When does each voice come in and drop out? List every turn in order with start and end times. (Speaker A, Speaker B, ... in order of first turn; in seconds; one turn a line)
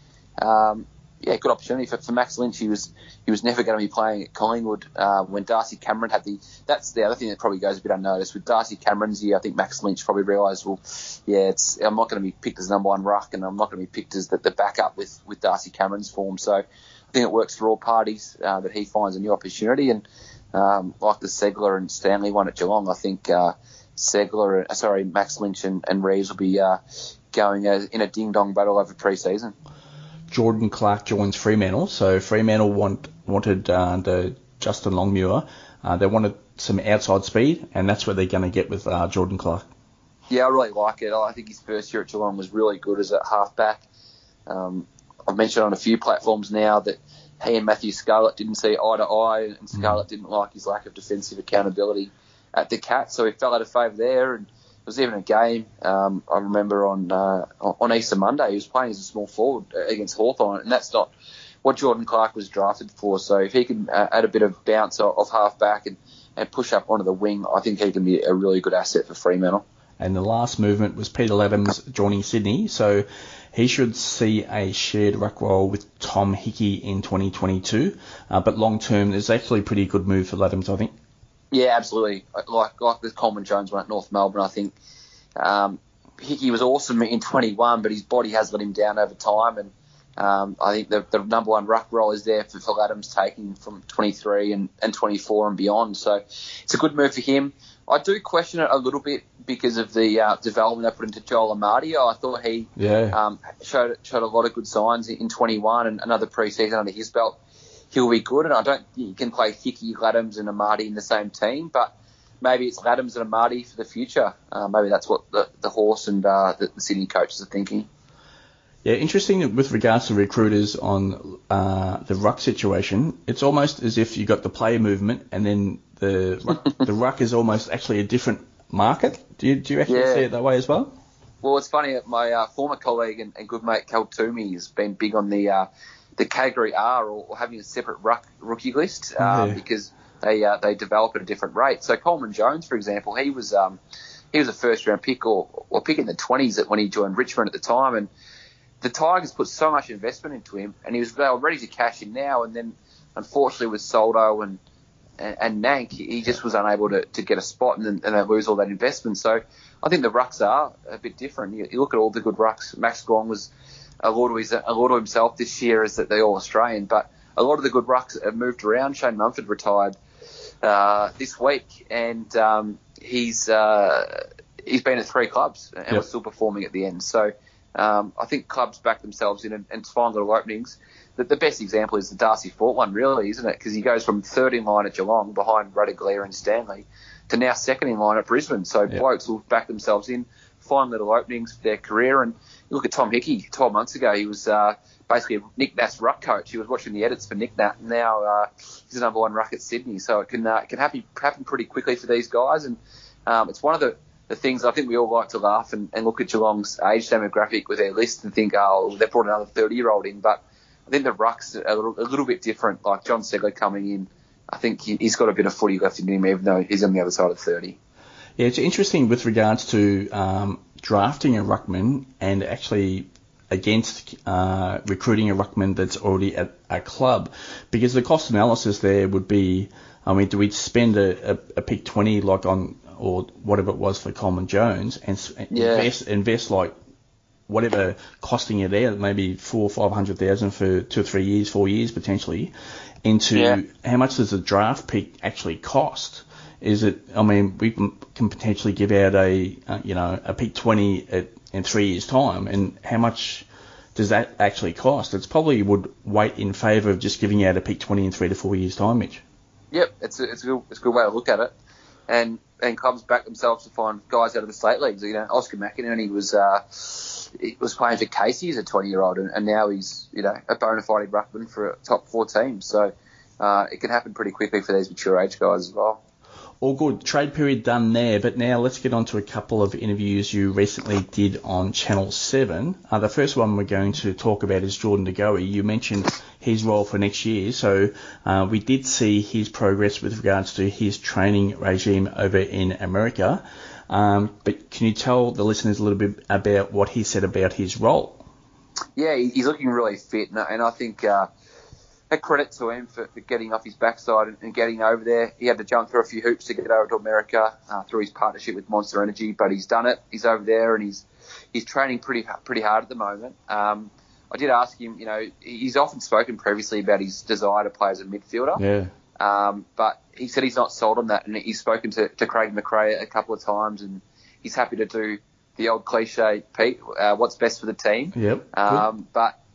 Speaker A: 0.4-26.8
Speaker A: 27.3-29.5
Speaker B: 30.3-39.7
Speaker A: 40.3-43.8
Speaker A: 44.5-61.1
Speaker A: 61.6-69.6
Speaker B: 70.0-80.9
Speaker A: 81.5-84.8
Speaker A: 85.4-107.4
Speaker B: 102.8-103.2
Speaker A: 107.9-117.9
Speaker B: 118.8-130.9
Speaker A: 129.9-130.2
Speaker A: 131.4-143.8
Speaker B: 139.2-139.6
Speaker A: 144.3-148.1
Speaker A: 148.8-154.6
Speaker A: 155.2-163.5
Speaker A: 164.0-170.0
Speaker A: 170.6-217.8
Speaker B: 218.4-236.7
Speaker A: 235.5-235.9
Speaker B: 237.5-242.5
Speaker B: 243.0-259.2
Speaker A: 259.7-261.5
Speaker A: 262.1-276.0
Speaker B: 276.6-298.2
Speaker A: 298.9-301.3
Speaker A: 302.1-318.6
Speaker B: 318.6-318.9
Speaker A: 319.2-329.3
Speaker B: 328.1-328.9